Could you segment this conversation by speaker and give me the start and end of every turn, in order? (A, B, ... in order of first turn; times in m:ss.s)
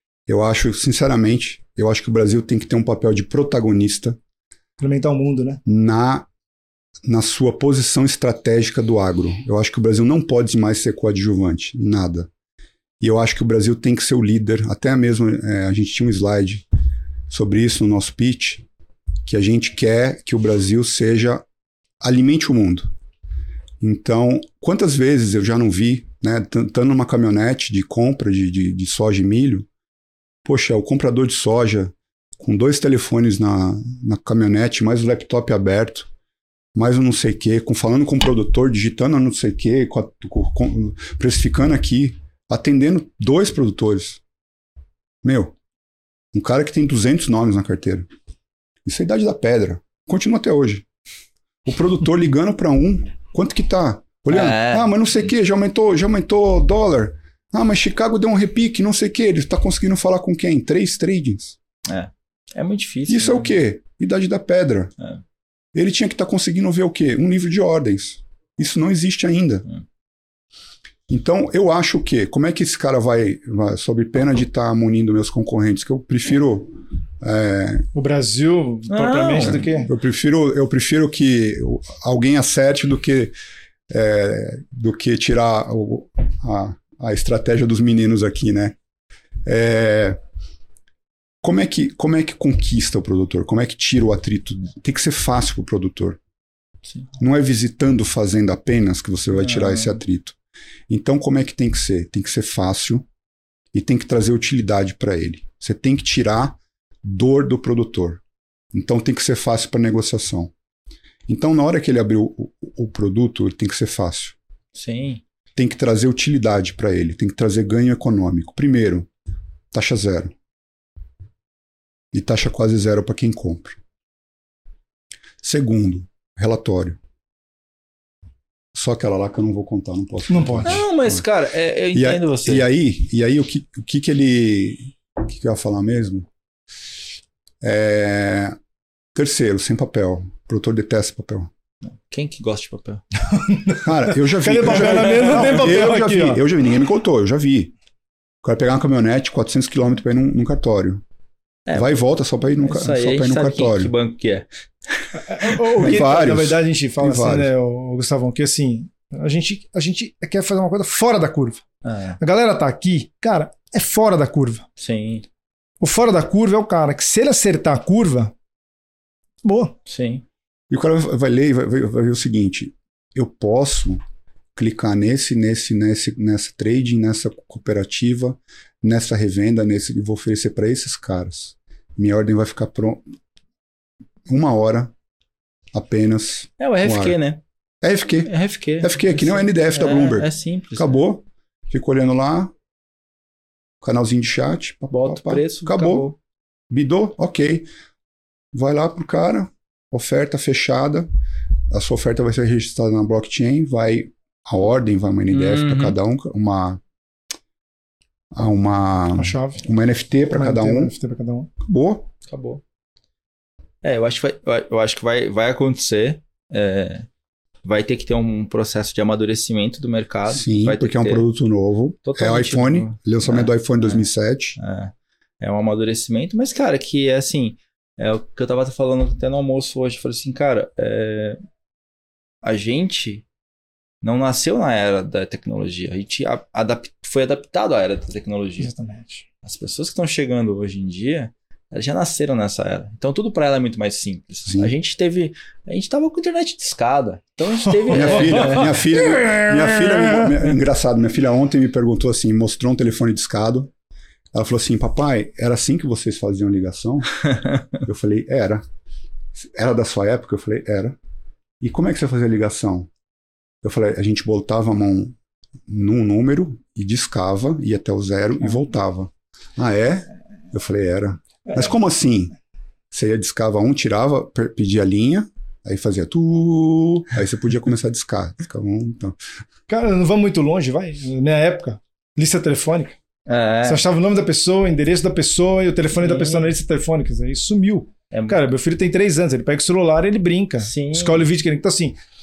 0:00.3-0:04.2 A
0:04.8-0:05.6 B
0:05.7-0:06.3 A
0:07.0-0:12.3 A
0:13.0-0:16.7 A
0:17.3-0:18.7 A
0:19.3-0:21.4 A
0:22.0-0:22.9 A
0:23.8-0:29.7 A
0:30.4-0:36.1 A
0:36.8-0:44.2 A
0:45.2-0:45.6 A
0:46.3-0:48.1 A
0:48.8-0:50.9 A
0:51.6-1:01.6 A
0:54.3-0:55.0 C
1:01.9-1:03.6 C
1:03.1-1:04.9 A
1:05.7-1:09.7 A
1:11.1-1:17.9 A
1:17.9-1:19.9 B
1:18.9-1:19.7 C
1:19.4-1:23.4 A
1:23.9-1:28.8 A
1:29.4-1:30.2 A
1:31.4-1:36.2 A
1:37.2-1:40.4 A
1:39.4-1:40.0 C
1:40.9-1:43.1 A
1:43.7-1:48.2 A
1:48.7-1:50.5 A
1:51.3-1:54.4 A
1:54.7-1:55.2 C
1:55.6-1:59.1 A
1:59.7-2:00.4 A
2:02.1-2:03.8 A
2:05.4-2:07.0 A
2:08.7-2:11.2 A
2:10.3-2:10.8 B
2:10.6-2:12.7 C
2:11.9-2:16.3 A
2:17.6-2:18.6 A
2:19.1-2:21.5 A
2:21.8-2:23.0 C
2:23.5-2:26.4 B
2:23.8-2:27.7 A
2:24.6-2:25.5 C
2:28.4-2:31.0 A
2:31.7-2:32.0 C
2:31.7-2:33.9 A
2:32.6-2:34.5 C
2:35.3-2:35.9 C
2:35.3-2:41.6 B
2:35.8-2:37.5 A
2:41.8-2:42.2 C
2:42.2-2:44.7 B
2:44.8-2:45.2 C
2:45.8-2:48.3 B
2:49.4-2:49.8 B
2:49.9-2:50.2 C
2:50.7-2:54.0 A
2:54.6-3:03.0 A
3:04.3-3:04.9 A
3:05.7-3:07.2 A
3:06.6-3:07.4 C
3:07.8-3:12.5 A
3:08.3-3:11.0 C
3:13.8-3:16.1 A
3:14.9-3:16.2 C
3:16.7-3:17.7 A
3:18.5-3:21.1 A
3:21.7-3:26.8 A
3:25.3-3:26.0 C
3:28.3-3:30.9 A
3:29.2-3:29.7 B
3:30.3-3:31.5 B
3:31.6-3:32.1 A
3:32.3-3:32.6 C
3:33.8-3:37.1 C
3:37.6-3:41.3 C
3:40.3-3:44.6 A
3:42.0-3:44.1 C
3:44.6-3:51.4 C
3:52.4-3:53.2 C
3:54.0-3:58.7 C
3:58.6-3:59.2 B
3:59.4-4:08.7 C
4:04.5-4:04.7 A
4:07.7-4:10.4 B
4:07.9-4:13.7 A
4:14.3-4:18.6 A
4:19.4-4:21.0 A
4:21.6-4:22.9 A
4:23.6-4:25.2 A
4:25.7-4:32.4 A
4:32.9-4:39.2 A
4:39.7-4:43.0 B
4:43.3-4:43.8 C
4:43.6-4:52.0 B
4:46.0-4:46.6 C
4:48.1-4:48.4 C
4:50.6-4:51.3 C